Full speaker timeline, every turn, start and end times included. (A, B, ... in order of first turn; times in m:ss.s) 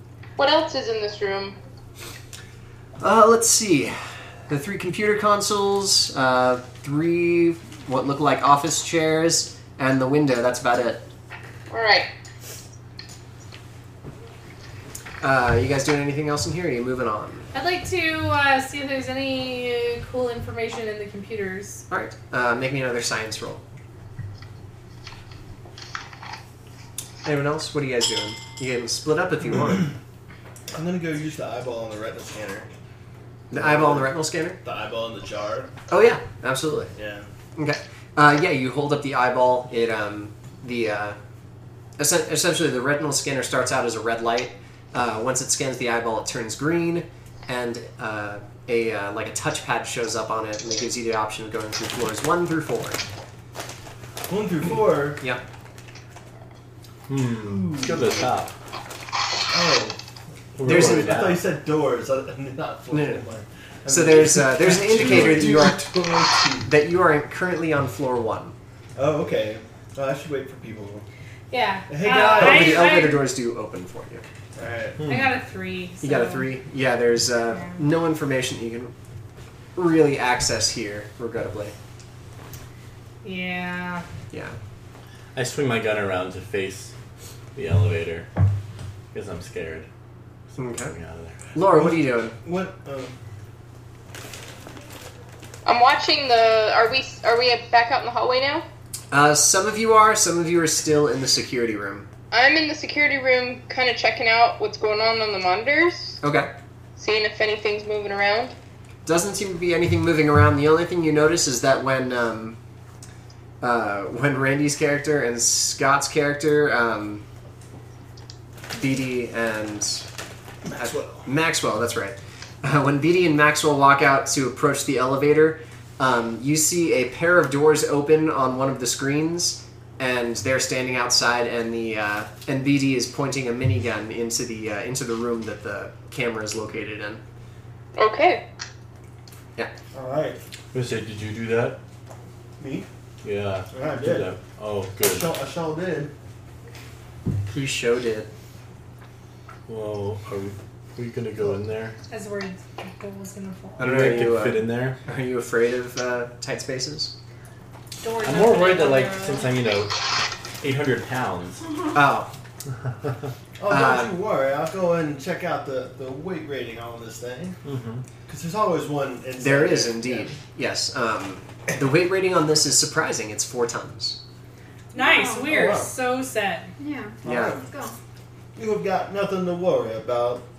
0:00.4-0:01.6 A
0:03.0-0:11.0 B
0:11.7-0:12.1 A
0:15.2-0:17.5 B
0:17.5-0:21.8 C
0:21.9-0:23.6 B
0:27.2-0:29.9 B
0:30.7-0:32.7 D
0:33.5-0:34.6 B
0:33.5-0:35.7 D
0:35.9-0:36.9 B
0:37.0-0:37.3 D
0:37.6-0:41.2 B
0:42.0-0:53.0 B
0:54.3-0:55.2 D
0:57.1-0:58.5 E
0:57.3-0:58.4 D
0:59.5-1:00.0 D
1:00.6-1:01.4 E
1:00.6-1:06.7 D
1:00.6-1:01.2 B
1:02.9-1:03.2 B
1:03.9-1:05.9 B
1:04.6-1:05.6 E
1:06.6-1:08.6 B
1:09.0-1:11.1 D
1:11.5-1:13.3 C
1:11.9-1:13.0 D
1:12.4-1:14.2 B
1:14.6-1:15.0 D
1:15.0-1:15.3 E
1:15.1-1:16.5 C
1:16.0-1:18.9 B
1:17.5-1:17.8 C
1:19.8-1:21.8 B
1:23.2-1:24.0 C
1:24.3-1:24.6 B
1:25.4-1:26.9 E
1:27.6-1:28.3 E
1:29.1-1:29.9 E
1:30.6-1:31.4 E
1:30.6-1:31.0 B
1:31.5-1:32.4 B
1:31.6-1:33.1 D
1:35.6-1:38.6 A
1:39.1-1:42.1 B
1:42.3-1:46.2 A
1:46.2-1:46.5 B
1:47.0-1:48.6 A
1:49.0-1:52.6 B
1:53.6-1:57.2 B
1:58.7-2:00.0 B
2:00.6-2:01.3 D
2:00.8-2:17.2 B
2:18.0-2:18.4 A
2:19.9-2:20.4 D
2:20.7-2:21.8 E
2:22.6-2:22.9 D
2:23.2-2:25.3 E
2:23.7-2:24.4 D
2:25.0-2:26.1 D
2:27.5-2:28.3 B
2:29.7-2:32.0 E
2:32.1-2:33.9 C
2:33.8-2:37.1 B
2:33.8-2:35.0 E
2:38.0-2:39.5 C
2:38.2-2:40.0 E
2:40.6-2:41.6 E
2:41.9-2:42.3 B
2:43.6-2:47.6 D
2:43.7-2:44.2 B
2:47.6-2:48.0 E
2:48.3-2:50.4 D
2:49.4-2:54.2 B
2:54.9-2:55.8 F
2:54.9-2:56.7 C
2:55.5-2:55.9 D
2:56.8-2:58.0 F
2:57.2-2:57.7 D
2:57.3-2:57.6 B
2:58.6-3:00.4 D